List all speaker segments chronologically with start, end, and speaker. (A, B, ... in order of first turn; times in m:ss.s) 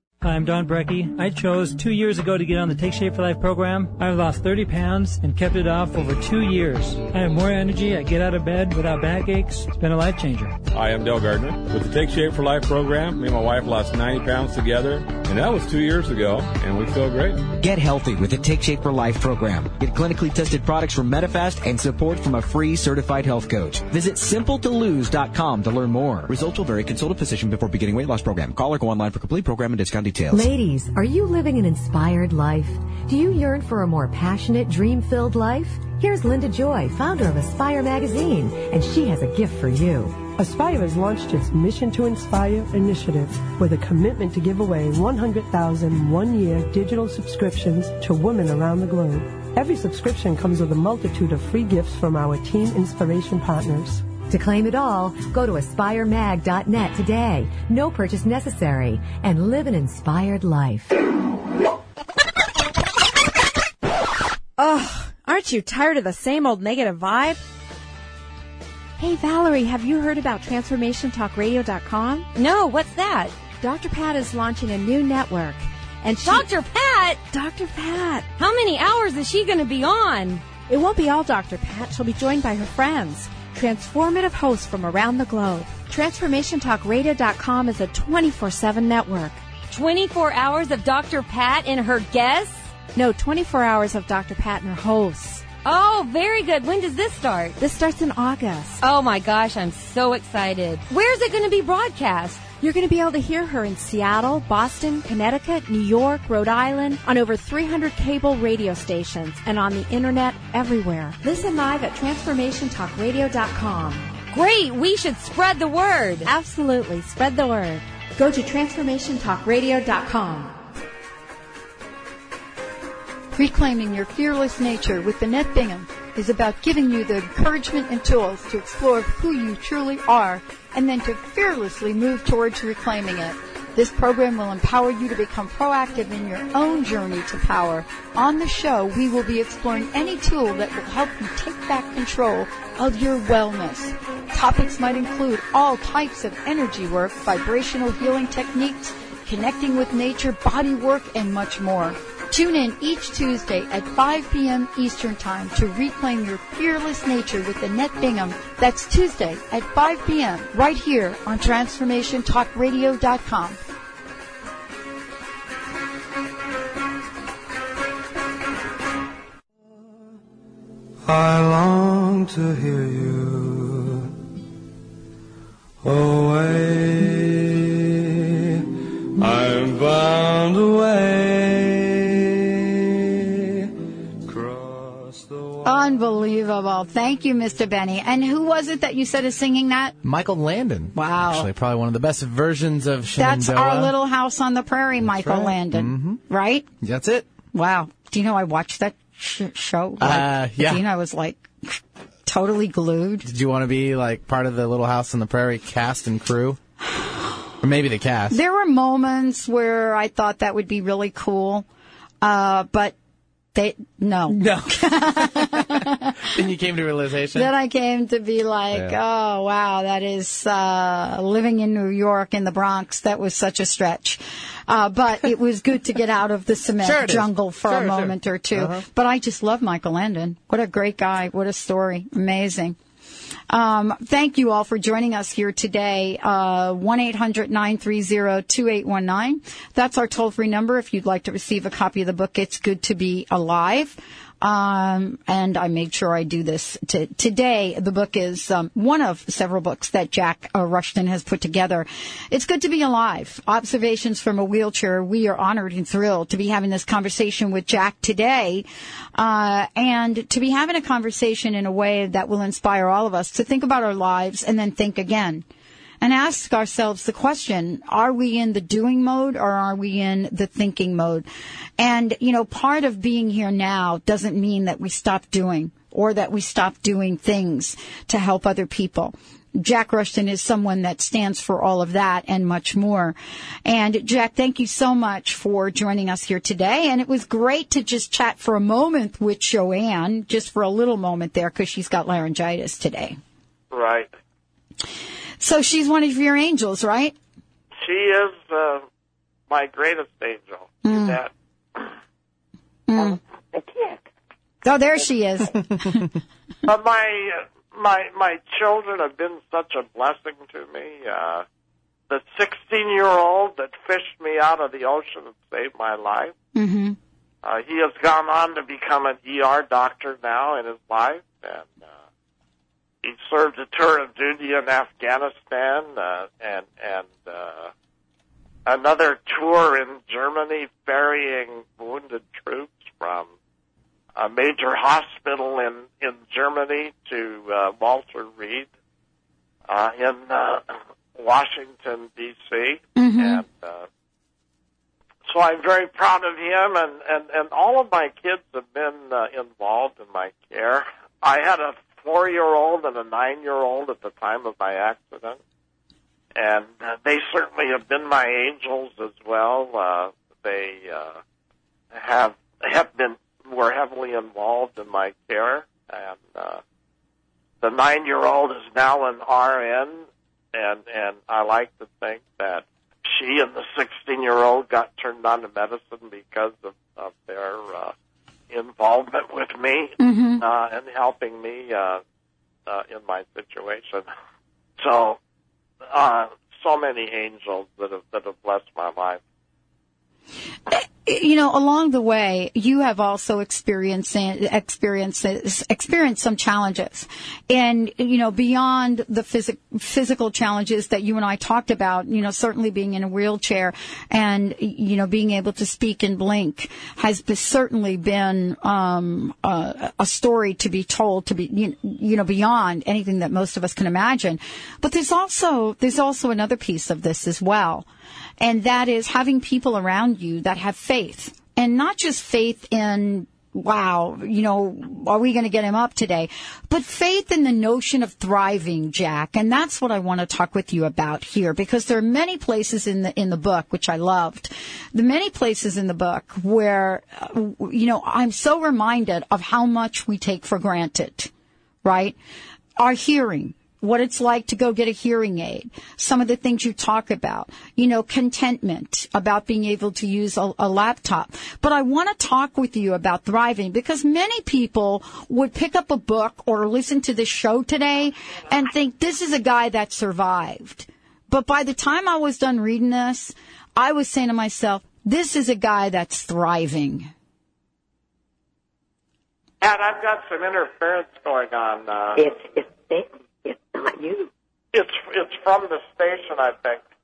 0:00.2-0:10.6 A
0:10.7-0:17.5 B
0:17.6-0:30.5 C
0:30.3-0:40.2 D
0:40.4-0:54.0 E
0:54.2-1:01.0 D
1:04.6-1:07.4 F
1:09.0-1:12.3 F
1:12.3-1:13.4 G
1:13.5-1:16.5 F
1:16.2-1:17.2 G
1:17.3-1:18.3 F
1:18.4-1:20.5 G
1:20.6-1:29.4 F
1:29.7-1:32.7 G
1:32.9-1:35.4 F
1:35.6-1:37.6 G
1:37.6-1:38.8 F
1:38.8-1:42.5 G
1:42.5-1:54.2 F
1:54.3-1:56.3 G
1:56.2-2:00.6 F
2:03.3-2:43.6 H
2:51.0-2:54.1 I
2:55.8-2:58.6 I
2:59.2-3:03.7 I
3:04.2-3:05.7 I
3:05.6-3:10.0 H
3:10.0-3:13.9 J
3:10.9-3:11.5 H
3:13.2-3:16.7 H
3:15.0-3:16.2 J
3:16.8-3:17.3 J
3:17.5-3:23.2 H
3:20.0-3:20.8 J
3:23.2-3:26.6 J
3:27.6-3:28.4 J
3:28.3-3:31.6 H
3:32.2-3:32.9 H
3:33.5-3:36.3 H
3:34.3-3:37.5 J
3:37.3-3:52.8 H
3:38.7-3:39.0 J
3:46.8-3:48.8 J
3:53.5-4:25.4 H
4:26.0-4:31.3 H
4:31.8-4:53.2 H
4:53.7-4:54.1 K
4:55.4-4:57.1 H
4:57.8-4:58.8 K
4:59.5-5:01.8 K
5:00.8-5:01.2 H
5:02.9-5:03.2 H
5:03.5-5:04.0 L
5:04.6-5:06.0 H
5:06.6-5:11.4 K
5:12.1-5:16.3 K
5:16.5-5:17.0 H
5:17.4-5:21.9 K
5:23.0-5:27.7 K
5:28.6-5:33.3 K
5:34.2-5:38.7 K
5:39.7-5:43.9 K
5:43.0-5:43.4 H
5:45.3-5:55.4 K
5:56.3-6:01.2 K
6:01.9-6:06.6 K
6:07.6-6:17.9 K
6:18.5-6:22.0 K
6:20.0-6:20.4 H
6:22.7-6:24.1 K
6:24.8-6:25.2 K
6:25.9-6:29.2 K
6:30.7-6:57.8 H
6:58.4-7:21.3 H
7:21.8-7:22.2 H
7:22.8-7:47.1 H
7:49.6-7:52.2 K
7:52.1-7:54.3 L
7:54.7-7:56.8 K